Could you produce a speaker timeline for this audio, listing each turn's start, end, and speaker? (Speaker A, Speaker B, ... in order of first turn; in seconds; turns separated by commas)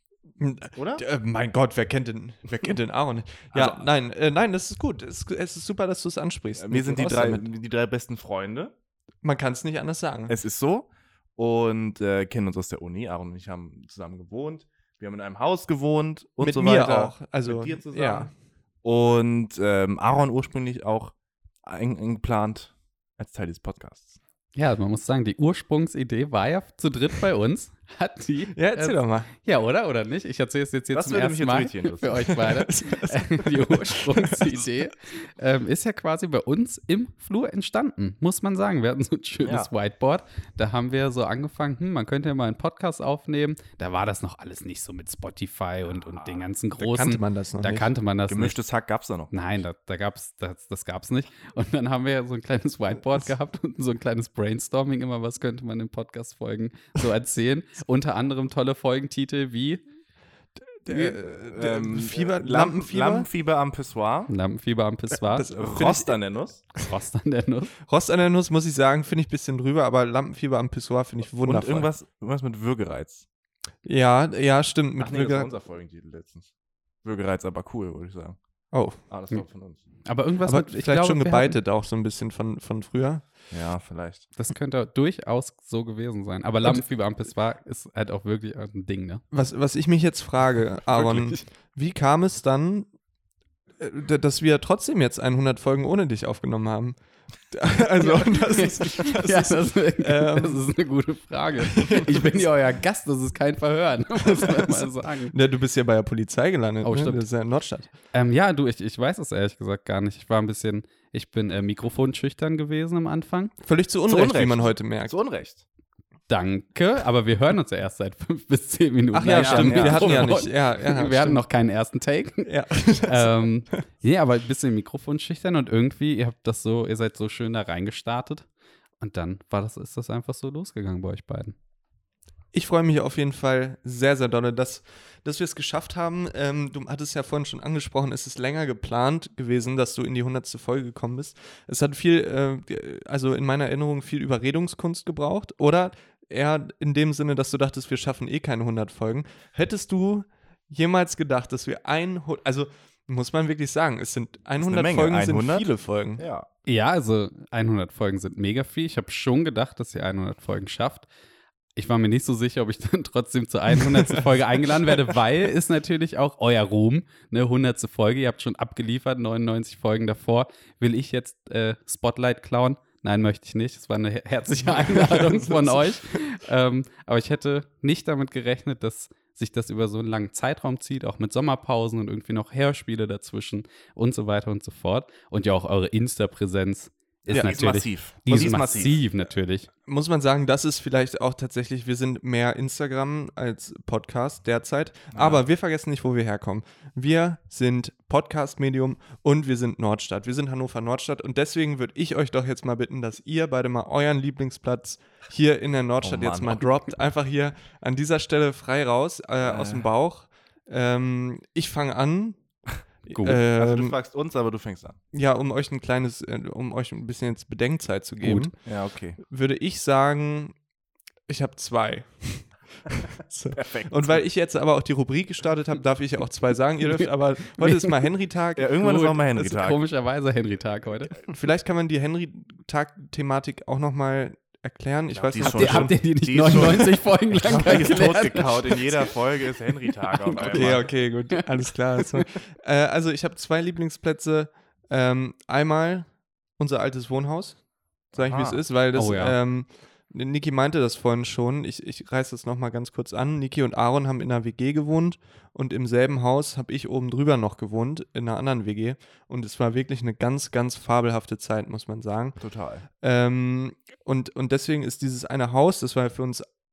Speaker A: 0.4-7.5, Speaker B: 0.8-1.0, Speaker B: 3.5-3.9, Speaker B: 6.6-8.7, Speaker A: 9.2-10.3, Speaker B: 10.3-18.3, Speaker A: 16.4-18.3, Speaker B: 18.8-24.1, Speaker C: 24.6-48.6, Speaker A: 28.5-29.3, Speaker B: 30.9-32.4, Speaker A: 32.6-34.0, Speaker B: 39.4-39.7, Speaker B: 46.1-46.4, Speaker A: 46.8-47.9, Speaker B: 48.3-49.3, Speaker C: 49.3-59.8, Speaker A: 60.7-63.3, Speaker B: 60.9-64.3, Speaker C: 64.3-65.5, Speaker A: 65.2-66.2, Speaker B: 65.6-66.6, Speaker C: 66.8-67.7, Speaker A: 67.8-71.9, Speaker B: 71.2-73.2, Speaker A: 73.8-75.5, Speaker B: 75.0-76.5, Speaker B: 77.0-78.4, Speaker A: 78.7-79.0, Speaker B: 79.1-79.8, Speaker C: 80.0-81.6, Speaker A: 80.5-83.3, Speaker B: 83.5-84.3, Speaker C: 84.3-89.2, Speaker A: 89.3-92.9, Speaker C: 91.0-91.4, Speaker A: 93.8-100.6, Speaker C: 98.0-105.3, Speaker A: 101.6-102.3, Speaker A: 105.3-107.9, Speaker C: 106.8-107.2, Speaker C: 108.1-113.5, Speaker A: 113.6-115.2, Speaker B: 114.1-115.6, Speaker C: 116.3-122.5, Speaker A: 119.1-121.4, Speaker B: 119.3-120.3, Speaker A: 122.4-123.7, Speaker C: 123.1-128.5, Speaker C: 129.0-131.5, Speaker A: 132.5-156.2, Speaker B: 154.6-156.5, Speaker C: 156.7-161.1, Speaker C: 161.8-189.7, Speaker A: 174.6-175.9, Speaker B: 187.2-189.0, Speaker A: 189.9-212.4, Speaker B: 195.1-195.4, Speaker B: 206.0-206.7, Speaker B: 209.4-209.9, Speaker A: 213.1-213.9, Speaker C: 213.1-213.4, Speaker B: 213.5-215.0, Speaker A: 215.1-218.5, Speaker C: 218.2-218.5, Speaker B: 218.7-219.2, Speaker A: 219.2-220.5, Speaker A: 221.3-228.7, Speaker B: 223.5-224.2, Speaker B: 228.6-229.8, Speaker C: 228.8-231.1, Speaker A: 231.3-236.0, Speaker B: 235.1-240.9, Speaker C: 235.4-239.1, Speaker A: 236.5-236.8, Speaker C: 240.0-240.8, Speaker A: 240.5-262.4, Speaker B: 248.1-248.6, Speaker C: 248.9-249.3, Speaker B: 262.4-262.9, Speaker A: 263.0-266.4